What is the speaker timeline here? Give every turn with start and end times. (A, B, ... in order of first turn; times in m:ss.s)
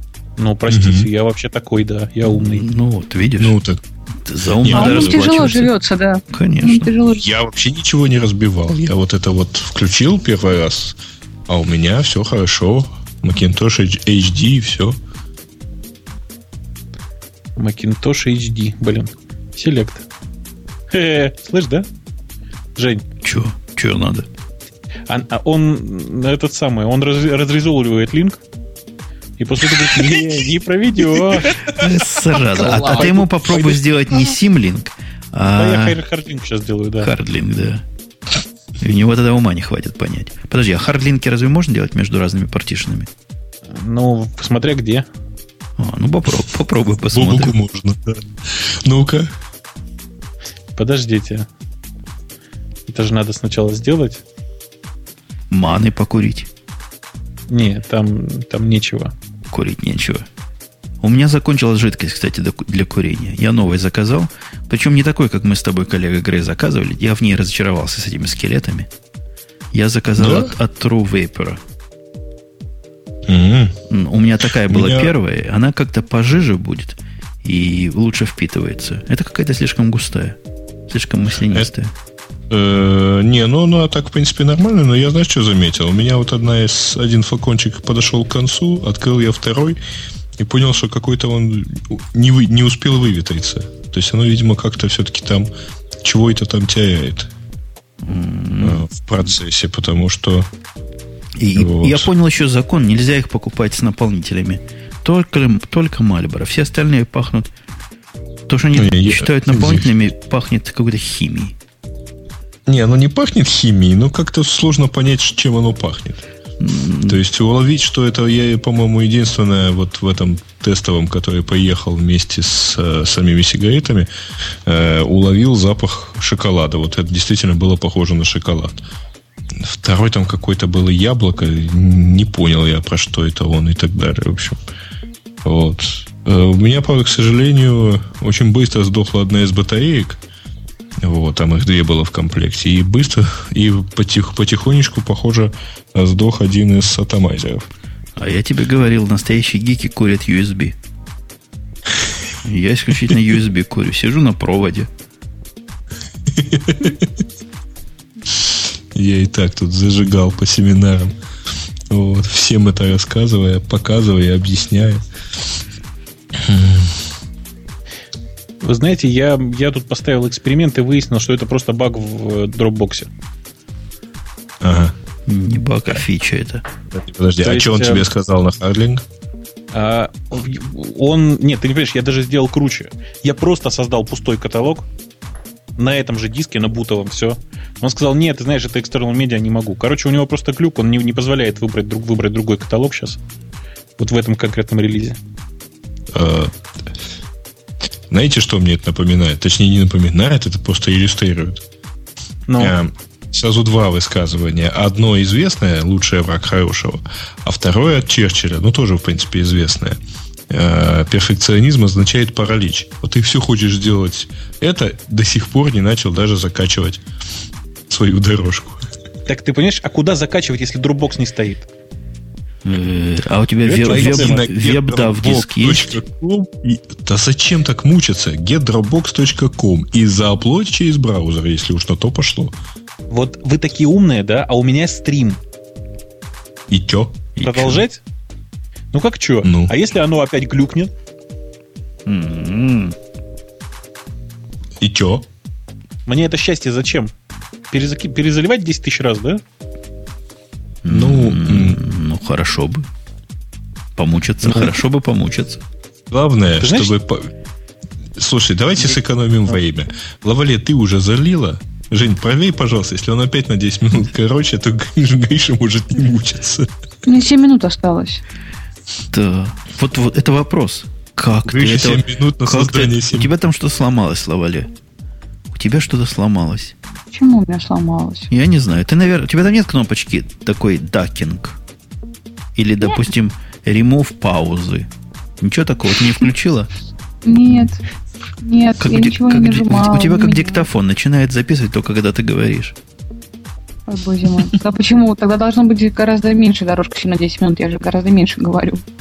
0:00.4-0:02.7 A
0:00.7-0:01.1 B
0:02.2-0:03.6 C
0:03.4-0:03.8 B
0:04.2-0:05.7 C
0:04.6-0:05.6 B
0:04.7-0:07.3 D
0:06.3-0:06.9 C
0:07.1-0:11.0 B
0:11.5-0:15.0 B
0:17.6-0:20.0 A
0:20.9-0:21.9 A
0:22.8-0:23.0 A
0:23.2-0:24.3 C
0:25.1-0:28.4 A
0:29.4-0:33.8 A
0:29.8-0:30.0 B
0:31.6-0:36.0 C
0:35.5-0:37.1 A
0:37.0-0:37.8 C
0:38.8-0:43.1 C
0:43.7-0:45.1 A
0:45.8-0:47.6 C
0:47.1-0:49.3 B
0:50.8-0:51.5 A
0:52.9-0:54.2 A
0:55.5-0:56.5 C
0:57.5-0:59.2 A
0:59.5-1:00.3 C
1:01.0-1:08.9 C
1:09.7-1:11.6 C
1:10.2-1:10.5 B
1:13.3-1:13.8 B
1:13.9-1:21.9 C
1:14.7-1:15.1 B
1:22.5-1:29.8 B
1:30.4-1:35.5 B
1:36.0-1:37.3 B
1:38.0-1:38.8 C
1:38.6-1:40.5 B
1:41.4-1:47.5 C
1:41.6-1:42.1 B
1:48.5-1:51.6 C
1:48.8-1:49.9 B
1:52.7-1:56.2 B
1:56.6-1:57.2 C
1:57.1-2:04.1 B
2:04.7-2:08.8 B
2:09.6-2:14.6 B
2:15.4-2:20.2 B
2:21.0-2:27.7 B
2:28.2-2:30.8 C
2:32.4-2:34.9 C
2:36.3-2:37.1 B
2:38.9-2:41.2 B
2:41.9-2:45.0 B
2:46.4-2:47.0 B
2:48.6-2:53.1 A
2:54.6-2:54.9 B
2:55.3-2:56.7 C
2:56.9-2:59.0 B
2:57.4-2:58.1 A
2:59.7-3:04.9 A
3:05.8-3:13.2 A
3:14.0-3:15.2 A
3:16.1-3:16.5 B
3:18.1-3:21.6 B
3:22.5-3:22.7 A
3:22.6-3:30.0 B
3:30.5-3:37.0 B
3:37.9-3:38.8 B
3:39.3-3:41.7 A
3:42.6-3:46.0 C
3:43.6-3:44.5 A
3:43.9-3:52.6 B
3:53.1-3:55.4 A
3:56.7-3:57.8 B
3:57.4-3:58.0 A
3:58.9-4:00.9 A
3:59.4-3:59.7 B
4:02.1-4:03.0 C
4:04.8-4:05.2 B
4:06.1-4:07.1 A
4:07.7-4:09.4 A
4:10.8-4:12.9 C
4:10.9-4:11.8 B
4:14.0-4:15.6 C
4:14.4-4:14.7 A
4:16.1-4:17.3 B
4:16.6-4:17.0 A
4:18.2-4:26.7 B
4:27.1-4:28.2 D
4:29.1-4:34.7 C
4:31.4-4:33.3 B
4:35.5-4:36.8 C
4:37.1-4:38.3 D
4:38.3-4:41.6 C
4:42.6-4:46.7 C
4:47.2-4:47.8 D
4:48.4-4:50.6 D
4:48.8-4:52.8 C
4:53.9-4:58.8 D